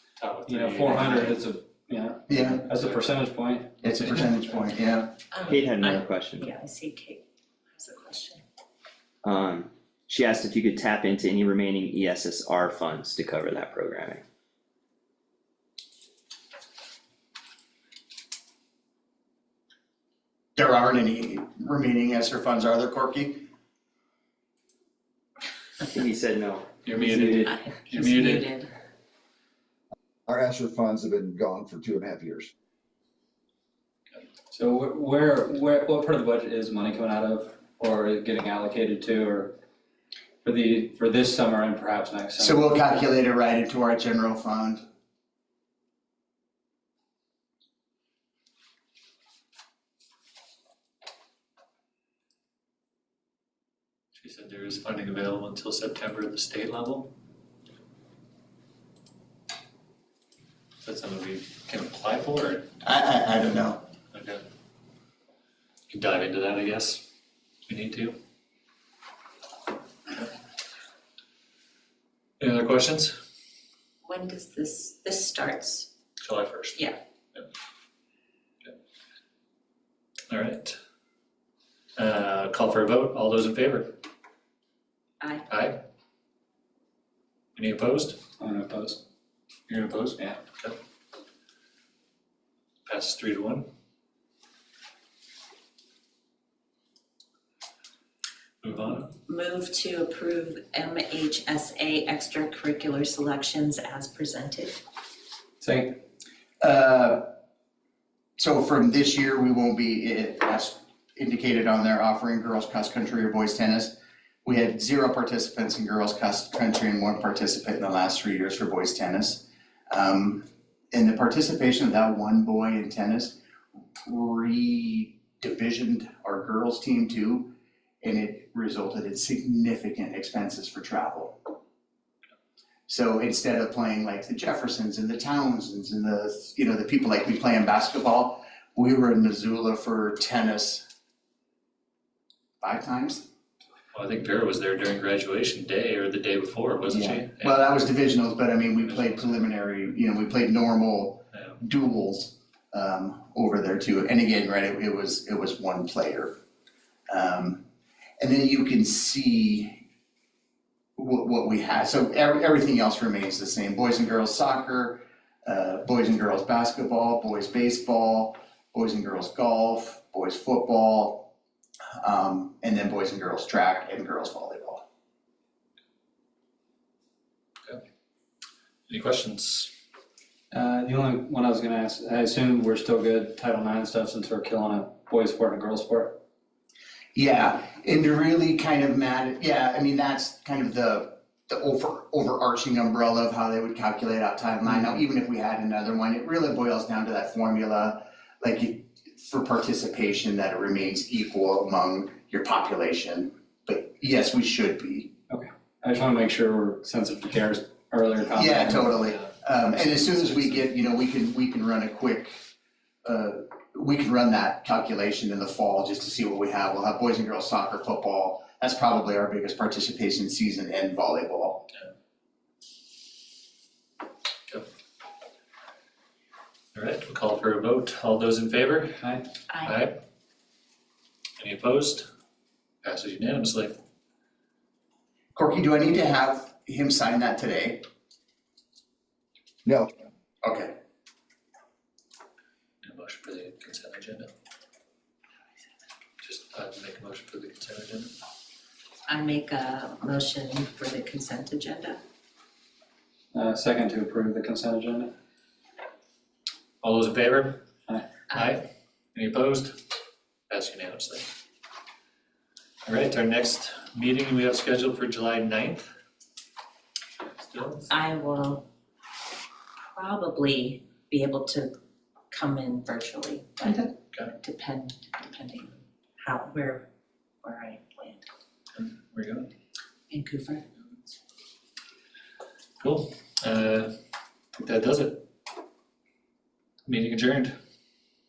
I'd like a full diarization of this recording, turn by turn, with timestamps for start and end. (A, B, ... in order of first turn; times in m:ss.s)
0:00.2-0:01.4 A
0:00.4-0:03.7 B
0:02.3-0:02.6 C
0:02.7-0:03.1 A
0:03.8-0:05.1 C
0:04.0-0:04.3 A
0:05.3-0:08.4 D
0:05.5-0:06.5 E
0:09.2-0:14.2 E
0:20.6-0:23.5 C
0:25.9-0:27.5 E
0:26.8-0:28.5 A
0:27.4-0:28.7 D
0:30.3-0:32.5 F
0:34.5-0:39.5 B
0:40.4-0:42.8 B
0:42.4-0:44.8 C
0:54.1-0:57.1 A
1:00.8-1:02.7 A
1:02.8-1:03.8 C
1:04.1-1:04.4 A
1:05.9-1:07.0 A
1:07.7-1:08.2 A
1:12.4-1:13.1 A
1:14.0-1:15.9 D
1:16.2-1:17.4 A
1:20.3-1:20.8 A
1:22.0-1:24.0 A
1:25.2-1:25.5 D
1:25.5-1:25.8 A
1:27.5-1:28.2 A
1:28.4-1:29.0 B
1:29.7-1:30.7 A
1:32.9-1:33.7 A
1:38.6-1:39.1 A
1:39.3-1:44.8 D
1:45.6-1:46.0 B
1:46.6-1:47.3 C
1:48.4-2:03.4 C
2:04.0-2:07.5 C
2:08.0-2:11.4 C
2:12.9-2:20.8 C
2:22.6-2:23.2 C
2:23.9-2:27.8 A
2:26.9-2:36.3 C
2:28.8-2:29.5 A
2:31.3-2:31.6 A
2:37.1-2:37.6 C
2:38.2-2:39.8 C
2:41.0-2:51.3 C
2:52.0-2:54.8 C
2:58.9-2:59.7 A
3:00.5-3:06.2 B
3:07.1-3:25.1 C
3:25.3-3:29.0 B
3:28.3-3:32.3 C
3:29.0-3:30.7 A
3:33.0-3:41.6 C
3:46.7-3:49.1 A
3:49.5-3:49.8 D
3:49.6-3:50.0 A
3:51.4-3:52.1 A
3:52.8-3:53.7 A
3:55.3-3:57.8 C
3:59.6-3:59.9 F
4:00.4-4:00.7 C
4:02.8-4:04.3 A
4:06.2-4:08.1 A
4:09.0-4:12.0 D
4:13.3-4:15.1 B
4:16.8-4:17.6 A
4:18.3-4:19.8 A
4:20.5-4:21.3 A
4:22.8-4:25.9 A
4:27.4-4:27.9 A
4:27.9-4:28.6 D
4:29.9-4:31.7 D
4:32.3-4:36.8 D
4:37.4-4:38.2 D
4:38.7-4:39.5 A
4:40.1-4:40.6 D
4:42.8-4:43.9 A
4:44.6-4:45.2 A
4:46.8-4:47.5 A